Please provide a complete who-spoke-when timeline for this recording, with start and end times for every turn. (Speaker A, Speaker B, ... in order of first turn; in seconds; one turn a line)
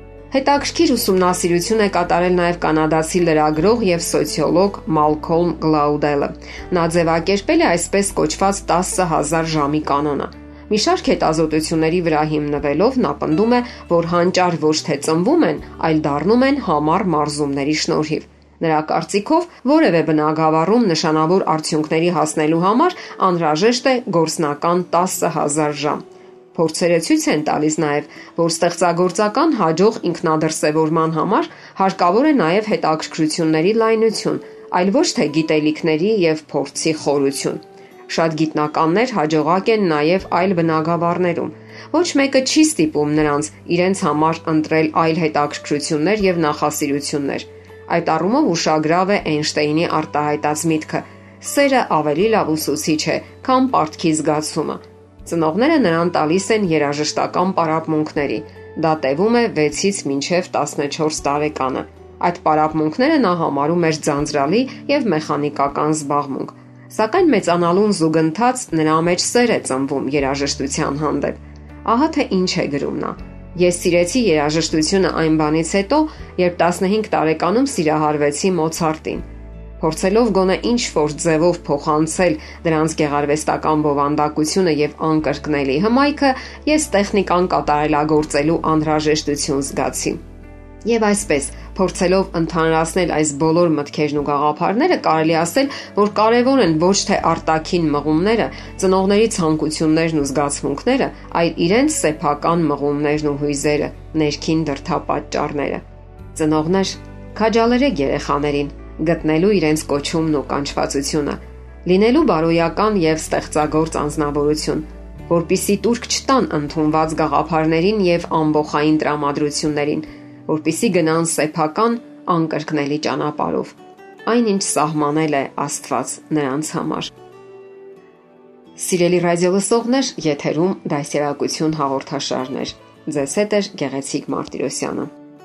Speaker A: 0.3-79.2
Speaker A: 79.8-90.2
Speaker A: 90.8-105.8
Speaker A: 106.3-127.1
Speaker A: 128.8-135.1